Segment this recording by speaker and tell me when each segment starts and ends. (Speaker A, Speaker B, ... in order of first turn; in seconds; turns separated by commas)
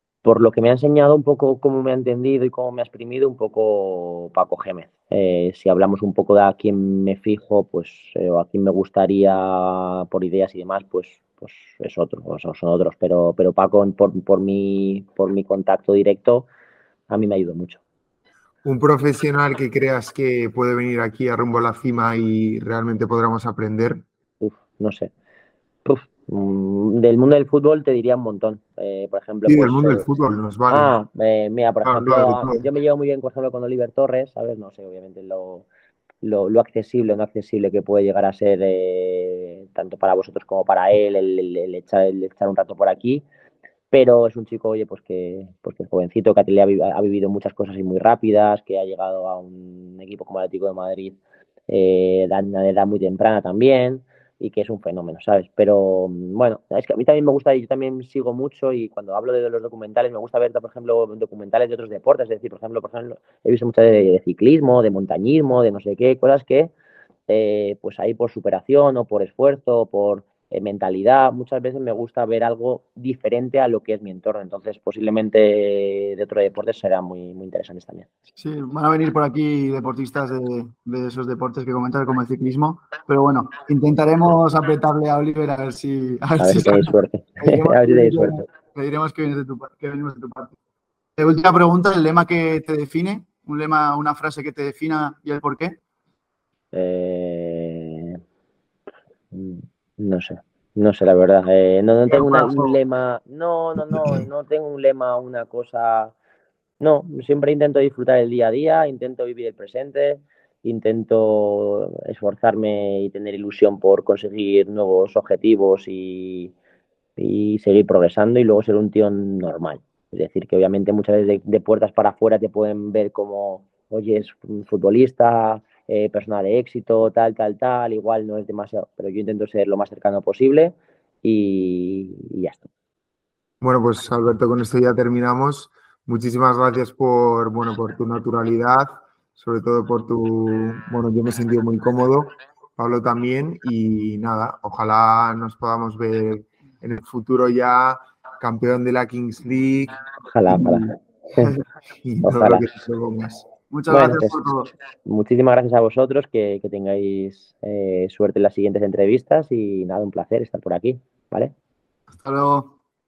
Speaker A: 0.2-16.5, Speaker A: 17.1-17.8, Speaker B: 18.6-24.1, Speaker A: 24.4-25.1, Speaker A: 25.9-30.1, Speaker B: 29.5-30.9, Speaker A: 30.7-35.7, Speaker B: 31.9-32.6, Speaker A: 36.2-43.2, Speaker A: 43.9-51.2, Speaker A: 51.7-66.7, Speaker A: 67.3-78.1, Speaker C: 78.4-90.6, Speaker A: 86.4-88.4, Speaker C: 91.2-95.8, Speaker A: 96.7-98.2, Speaker A: 99.3-106.1, Speaker C: 102.2-102.7, Speaker A: 106.8-116.5, Speaker A: 117.2-132.7, Speaker B: 133.6-150.9, Speaker A: 150.2-151.5, Speaker B: 151.4-153.5, Speaker A: 152.2-152.7, Speaker C: 153.7-154.7, Speaker A: 153.9-154.5, Speaker A: 155.1-161.5, Speaker C: 162.1-162.8